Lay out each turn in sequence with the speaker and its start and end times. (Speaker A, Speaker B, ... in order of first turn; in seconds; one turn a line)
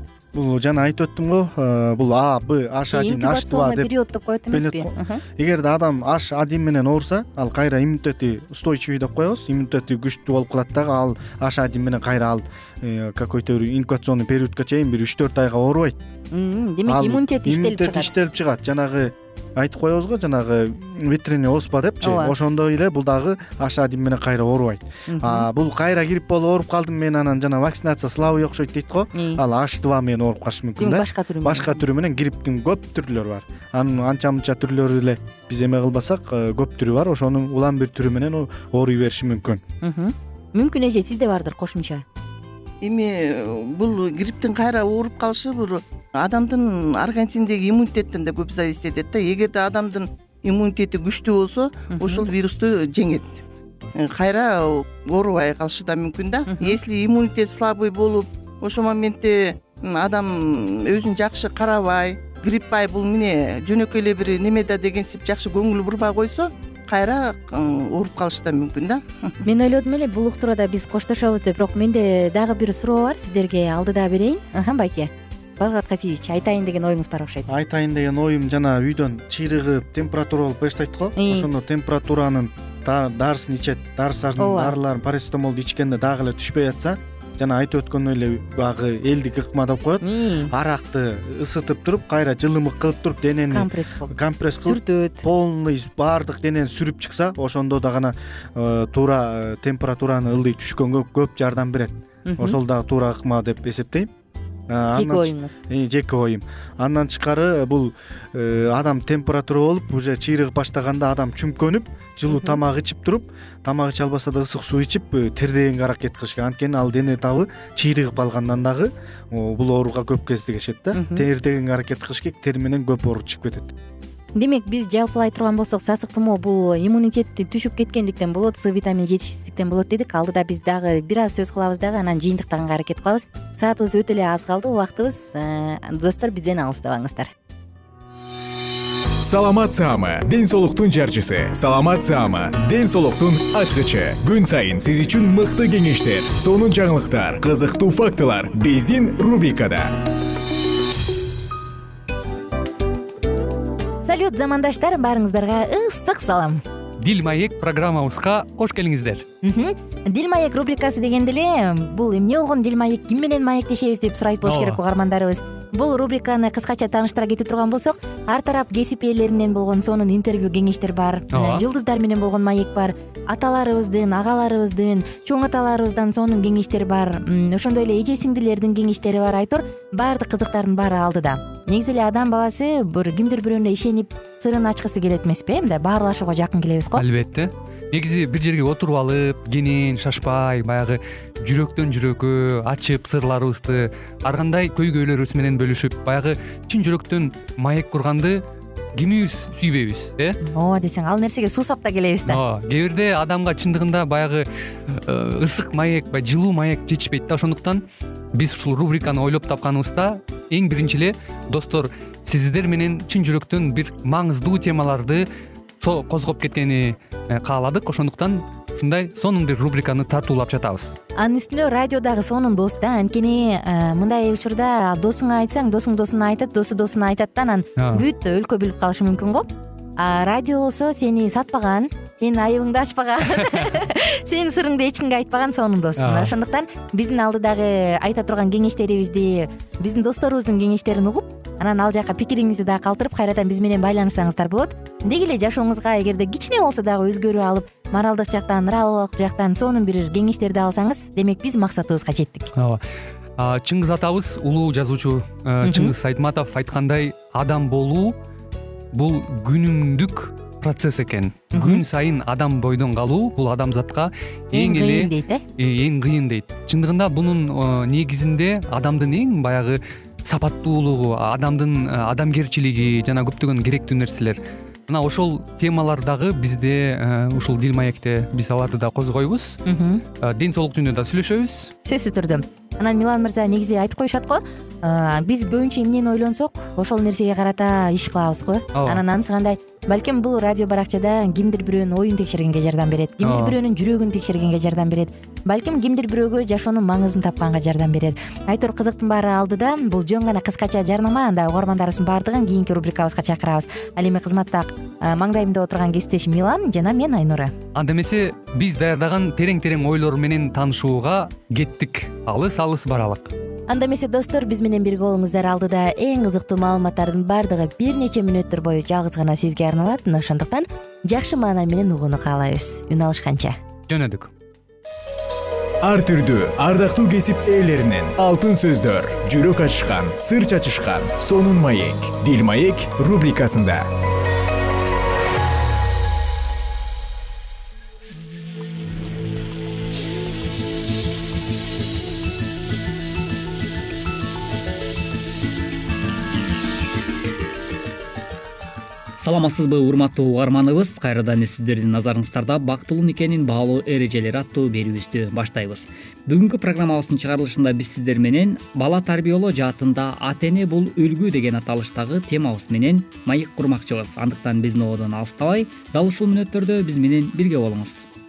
Speaker A: 0.3-3.9
Speaker B: 2.9-5.2
Speaker A: 4.5-16.0
Speaker B: 16.3-18.1
Speaker A: 16.9-39.6
Speaker B: 22.0-22.3
Speaker B: 25.1-25.5
Speaker B: 29.1-29.4
Speaker B: 30.8-31.8
Speaker B: 39.8-42.0
Speaker C: 42.8-53.4
Speaker B: 51.9-52.3
Speaker C: 54.0-69.4
Speaker B: 56.5-56.8
Speaker B: 69.4-77.5
Speaker A: 77.5-104.1
Speaker B: 81.2-81.5
Speaker B: 84.4-84.8
Speaker B: 90.0-90.5
Speaker B: 93.5-95.3
Speaker B: 102.2-102.6
Speaker A: 104.7-123.7
Speaker B: 104.9-105.6
Speaker B: 112.3-112.6
Speaker B: 120.9-121.2
Speaker B: 124.3-137.3
Speaker D: 139.2-149.9
Speaker B: 154.0-156.6
Speaker E: 157.0-159.2
Speaker B: 159.4-187.0
Speaker E: 164.4-164.8
Speaker E: 171.3-171.6
Speaker E: 186.9-198.4
Speaker E: 198.9-200.4
Speaker B: 200.4-202.4
Speaker E: 202.3-215.2
Speaker E: 215.8-220.9
Speaker B: 221.2-252.5
Speaker E: 227.8-228.0
Speaker E: 236.0-236.3
Speaker E: 252.5-252.8
Speaker E: 253.4-258.1
Speaker B: 255.6-255.9
Speaker E: 258.9-279.6
Speaker B: 261.5-261.8
Speaker B: 264.5-265.4
Speaker B: 279.6-280.0
Speaker E: 280.2-281.7
Speaker B: 281.8-307.5
Speaker E: 288.7-289.0
Speaker E: 293.2-293.6
Speaker E: 307.7-313.3
Speaker B: 313.7-323.6
Speaker E: 323.9-324.3
Speaker D: 325.8-333.9
Speaker F: 349.2-368.0